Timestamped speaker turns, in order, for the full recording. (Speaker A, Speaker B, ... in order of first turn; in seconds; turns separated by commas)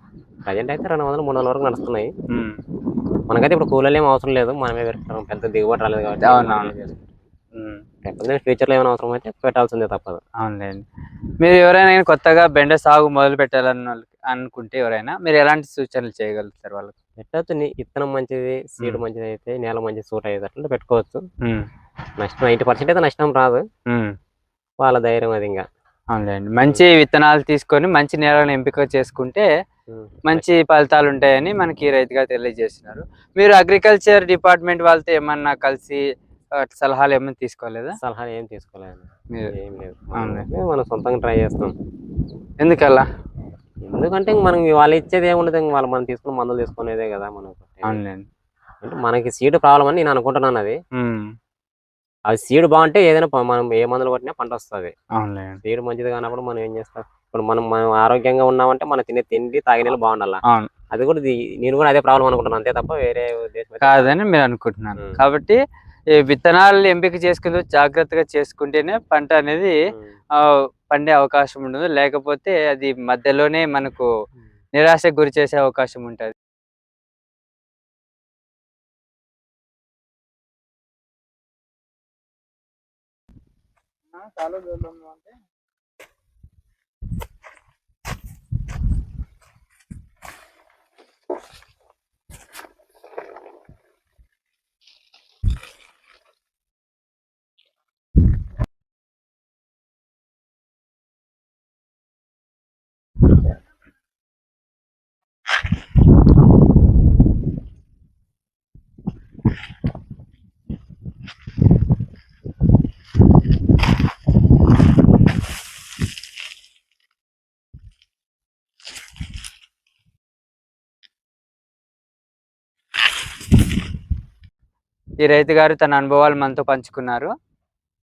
Speaker A: 0.5-2.1, Speaker B: 2.3-2.6, Speaker A: 3.3-7.2, Speaker B: 6.2-6.7, Speaker B: 7.5-7.8, Speaker A: 8.0-10.2, Speaker B: 10.4-10.8, Speaker B: 11.4-16.9, Speaker A: 17.2-21.2, Speaker A: 22.2-23.6, Speaker A: 24.8-25.6, Speaker B: 26.1-29.4, Speaker A: 29.9-30.5, Speaker B: 30.3-36.0, Speaker B: 36.6-38.0, Speaker A: 38.0-41.7, Speaker B: 40.2-40.4, Speaker B: 42.6-43.0, Speaker A: 43.9-48.0, Speaker B: 47.8-48.2, Speaker A: 48.8-50.8, Speaker B: 51.0-51.3, Speaker A: 52.3-54.9, Speaker B: 55.2-55.6, Speaker A: 55.6-60.4, Speaker A: 60.9-64.1, Speaker B: 63.8-65.6, Speaker B: 66.2-69.7, Speaker B: 70.9-74.1, Speaker B: 74.8-76.3, Speaker B: 84.2-85.3, Speaker B: 125.2-127.3